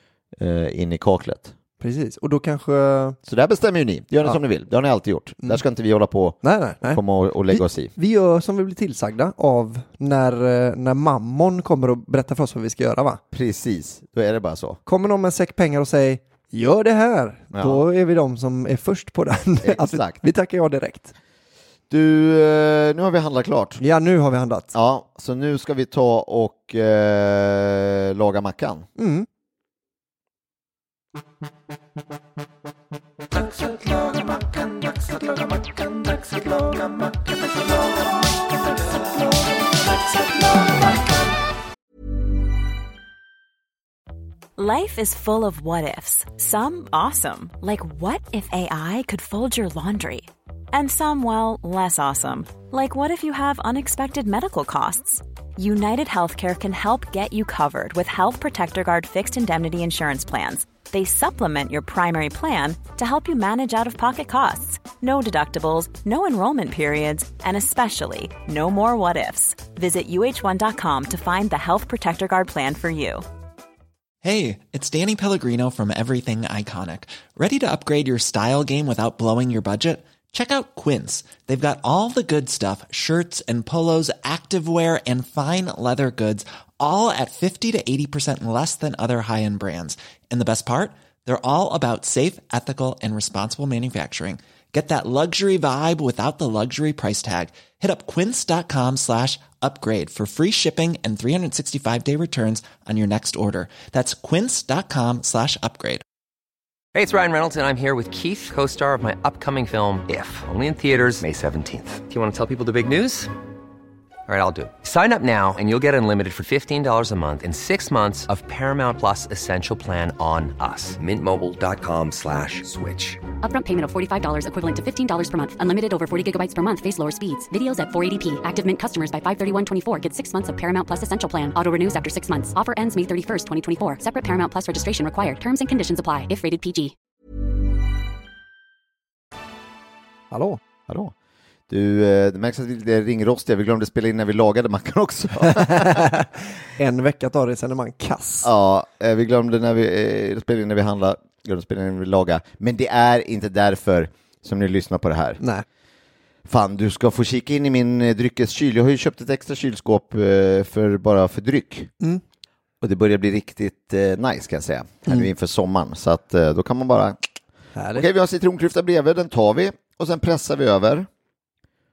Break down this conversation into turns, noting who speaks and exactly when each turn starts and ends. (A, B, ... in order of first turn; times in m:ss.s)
0:00.4-0:01.5 A
0:01.8-0:03.2 B
0:03.2-0:07.9 A
0:06.4-0:13.2 B
0:13.3-0:14.8 A
0:14.9-0:21.1 B
0:17.5-0:17.8 A
0:19.6-0:20.2 A
0:21.9-0:23.8 A
0:23.8-0:24.7 B
0:24.7-0:28.9 A
0:29.0-0:29.3 B
0:44.6-1:13.2 C
1:14.2-1:46.0 D
1:46.9-1:53.3 E
1:54.3-2:03.2 E
2:03.4-2:16.9 F
2:20.3-2:20.6 B
2:20.9-2:21.1 A
2:21.7-2:26.2 A
2:25.4-2:28.5 B
2:28.4-2:35.4 A
2:35.4-2:35.6 B
2:36.5-2:41.9 A
2:42.8-2:47.2 A
2:47.8-2:48.1 B
2:47.9-2:51.1 A